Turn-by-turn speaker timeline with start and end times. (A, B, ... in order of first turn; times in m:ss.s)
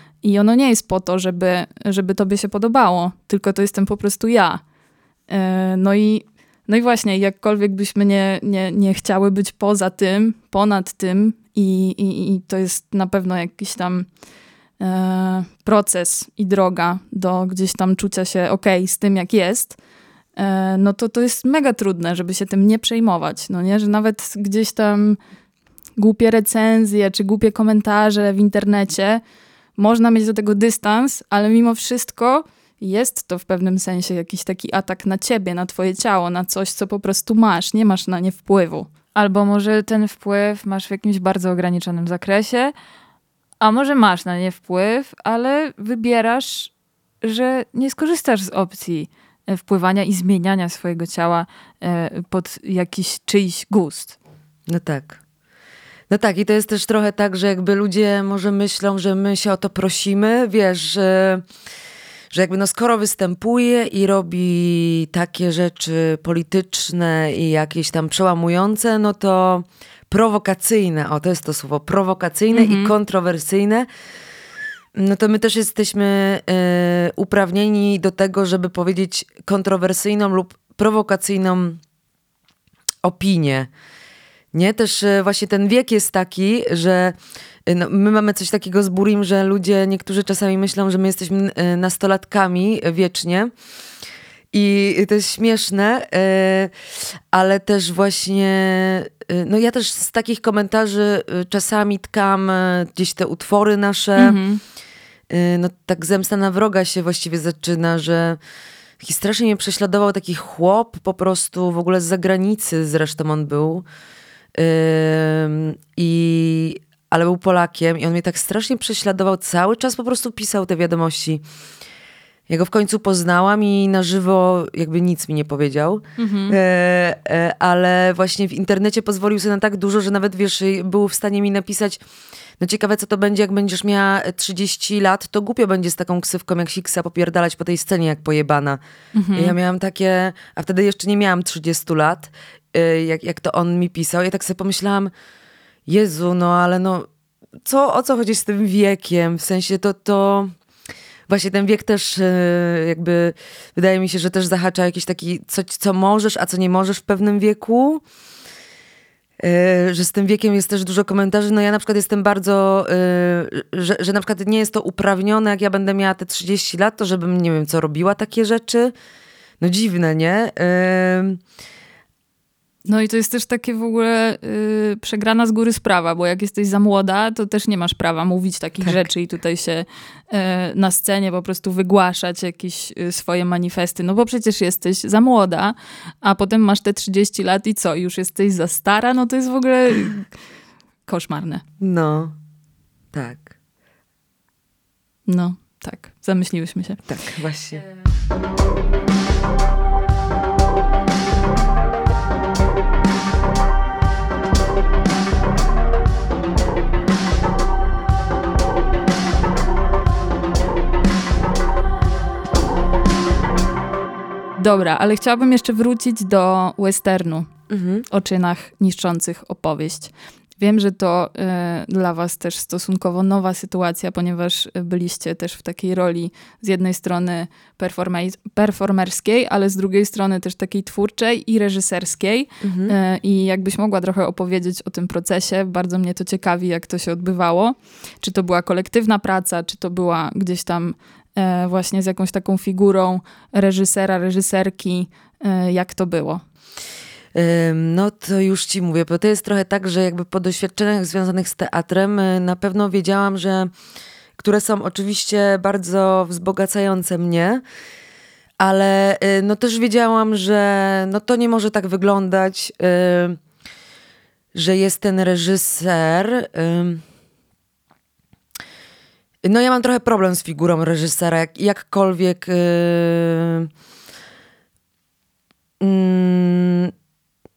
0:00.2-0:04.6 A
0:05.3-0:14.1 A
0:14.8-0:19.8 A
0:20.4-0:25.2 A
0:26.0-0:29.2 A
0:29.8-0:42.7 A
0:43.6-0:54.2 A
0:54.7-0:55.2 B
0:56.1-1:01.4 B
1:02.3-1:13.8 B
1:12.5-1:12.9 A
1:14.9-1:21.8 B
1:23.0-1:23.7 B
1:24.5-1:33.5 B
1:34.5-1:36.7 B
1:37.3-1:44.4 B
1:44.2-1:44.6 A
1:45.3-1:48.4 B
1:49.0-1:53.8 B
1:54.5-2:01.4 B
2:02.5-2:12.0 B
2:06.2-2:06.6 A
2:12.6-2:18.8 B
2:19.1-2:19.5 A
2:19.3-2:25.1 B
2:25.9-2:27.1 B
2:27.6-2:30.5 B
2:31.3-2:38.0 B
2:39.4-2:48.9 B
2:49.6-2:51.4 B
2:52.8-3:10.3 A
3:11.0-3:11.6 A
3:11.8-3:12.3 B
3:13.1-3:13.5 B
3:15.2-3:17.0 A
3:17.1-3:17.8 B
3:34.6-3:37.5 A
3:37.7-3:38.0 B
3:38.1-4:06.4 A
3:52.6-3:52.9 B
4:07.3-4:13.7 B
4:14.4-4:17.6 B
4:18.6-4:23.4 B
4:24.5-4:27.0 B
4:29.4-4:33.7 B
4:35.8-4:36.9 B